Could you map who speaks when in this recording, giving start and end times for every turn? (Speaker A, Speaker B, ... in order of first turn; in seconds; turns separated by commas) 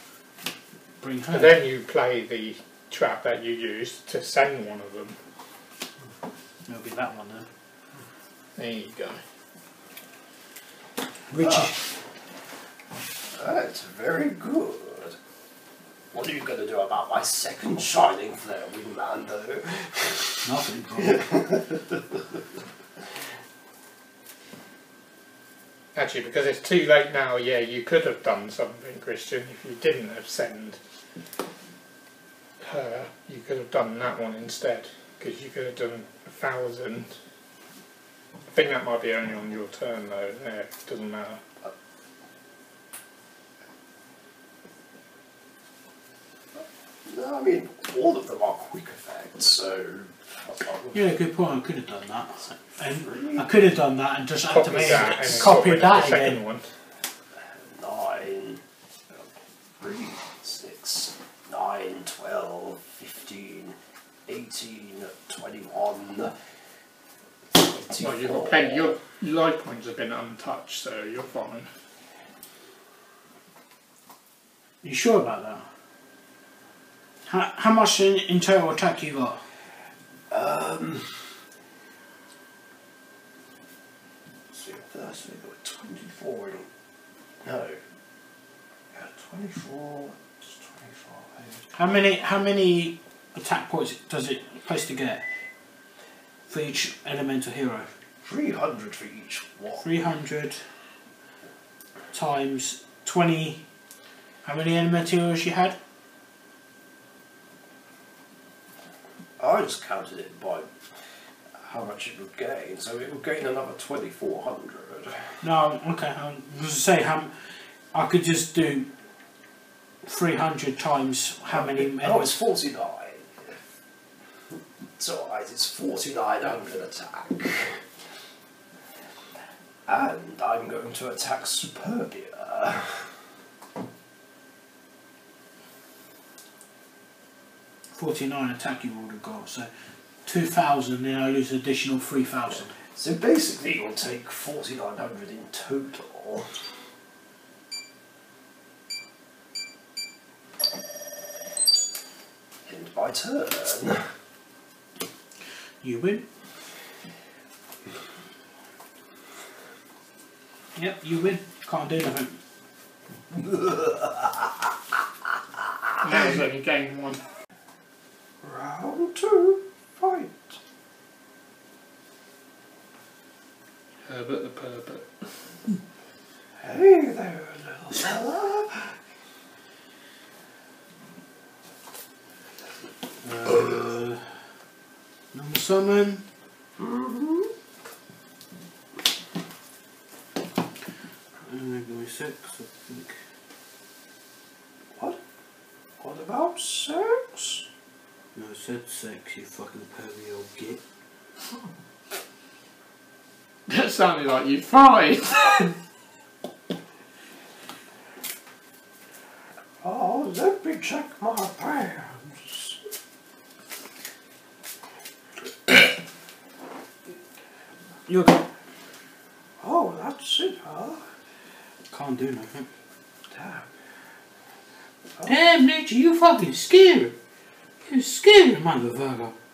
Speaker A: 1.0-1.6, Speaker B: 1.3-5.2, Speaker A: 6.7-7.5, Speaker B: 8.6-9.2, Speaker A: 11.3-11.8, Speaker C: 11.4-11.8, Speaker C: 13.4-15.2, Speaker C: 16.1-20.5, Speaker A: 20.4-21.3, Speaker C: 21.0-22.4, Speaker B: 25.9-30.8, Speaker B: 32.6-37.2, Speaker B: 38.5-41.4, Speaker C: 47.1-51.1, Speaker A: 50.9-56.4, Speaker C: 52.8-53.6, Speaker B: 54.5-56.7, Speaker C: 57.6-66.3, Speaker C: 67.5-69.0, Speaker B: 68.0-71.7, Speaker A: 74.8-75.7, Speaker A: 77.3-79.4, Speaker C: 80.3-81.3, Speaker C: 84.5-86.7, Speaker C: 87.4-87.8, Speaker C: 88.9-91.7, Speaker A: 91.7-95.2, Speaker A: 96.5-97.9, Speaker C: 98.2-99.9, Speaker A: 99.8-100.6, Speaker A: 102.1-103.6, Speaker A: 104.4-105.8, Speaker C: 109.4-110.7, Speaker C: 111.6-115.3, Speaker A: 115.4-117.3, Speaker A: 117.9-118.9, Speaker A: 120.0-122.4, Speaker C: 121.5-123.6, Speaker C: 125.0-127.8, Speaker C: 129.9-133.1, Speaker A: 137.9-139.7, Speaker A: 140.2-142.7, Speaker C: 142.9-146.6, Speaker C: 152.7-154.0, Speaker A: 155.8-156.3, Speaker A: 160.8-162.4, Speaker C: 163.3-165.0, Speaker C: 165.6-166.1, Speaker B: 166.0-167.2, Speaker C: 168.4-170.6, Speaker B: 174.1-175.3, Speaker C: 176.6-179.0, Speaker A: 183.2-184.3, Speaker A: 185.3-186.2, Speaker C: 186.8-187.5, Speaker A: 191.5-193.2, Speaker C: 196.0-197.7, Speaker A: 198.3-200.8, Speaker B: 203.7-205.8, Speaker C: 209.8-212.8, Speaker A: 218.1-218.4, Speaker C: 219.6-221.0, Speaker A: 221.9-222.7, Speaker C: 223.3-223.7, Speaker A: 225.2-227.2, Speaker A: 227.9-229.4